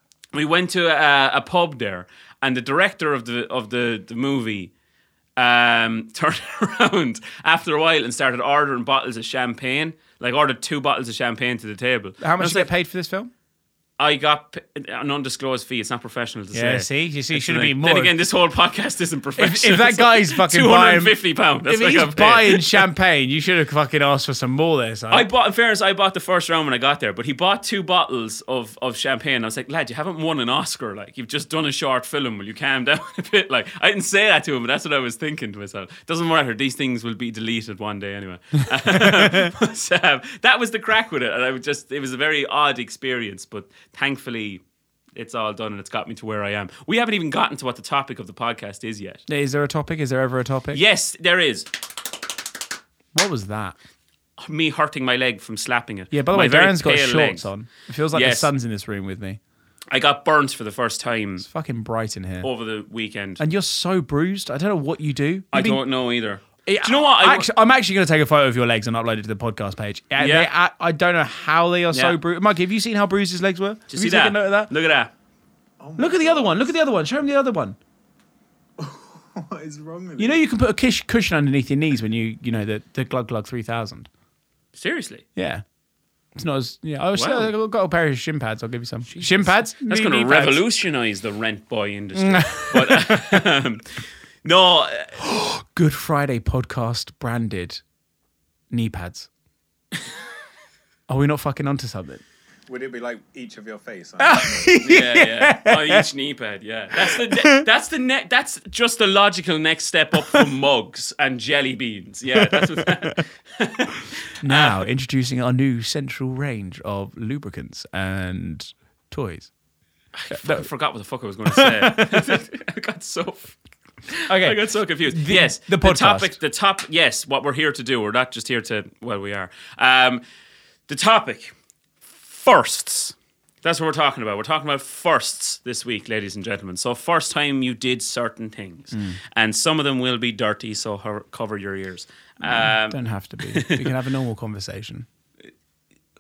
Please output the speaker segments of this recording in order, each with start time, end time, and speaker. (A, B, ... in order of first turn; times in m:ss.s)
0:00.3-0:04.7 A
0:05.4-0:12.7 A
0:12.2-0:13.3 B
0:14.0-0:22.9 A
0:16.5-0:18.2 B
0:19.4-0:25.3 B
0:25.1-0:44.6 A
0:38.9-0:39.5 B
0:45.2-0:49.2 A
0:49.3-0:50.8 B
0:50.7-0:51.7 A
0:53.1-0:53.8 B
0:54.4-0:57.5 A
0:56.1-0:59.4 B
0:58.1-0:58.5 A
0:59.9-1:01.5 A
1:01.4-1:02.5 B
1:02.4-1:03.4 A
1:03.4-1:05.8 B
1:05.5-1:07.5 A
1:06.7-1:14.7 B
1:10.2-1:10.5 A
1:11.9-1:12.2 A
1:13.9-1:15.1 A
1:15.8-1:16.7 C
1:16.0-1:17.8 B
1:18.8-1:20.4 C
1:20.2-1:24.1 B
1:24.8-1:25.2 A
1:25.4-1:25.6 B
1:26.4-1:30.6 B
1:27.1-1:27.5 A
1:29.1-1:35.2 A
1:32.2-1:33.4 B
1:35.2-1:37.8 B
1:38.7-1:39.3 B
1:41.1-1:42.2 B
1:42.7-1:44.8 C
1:44.2-1:46.1 B
1:44.8-1:54.8 A
1:47.0-1:47.7 B
1:52.4-1:53.1 B
1:54.4-1:59.5 B
2:00.2-2:10.2 A
2:00.3-2:00.7 B
2:01.5-2:02.3 B
2:04.3-2:06.4 B
2:10.9-2:11.5 A
2:12.2-2:23.9 A
2:22.4-2:25.1 B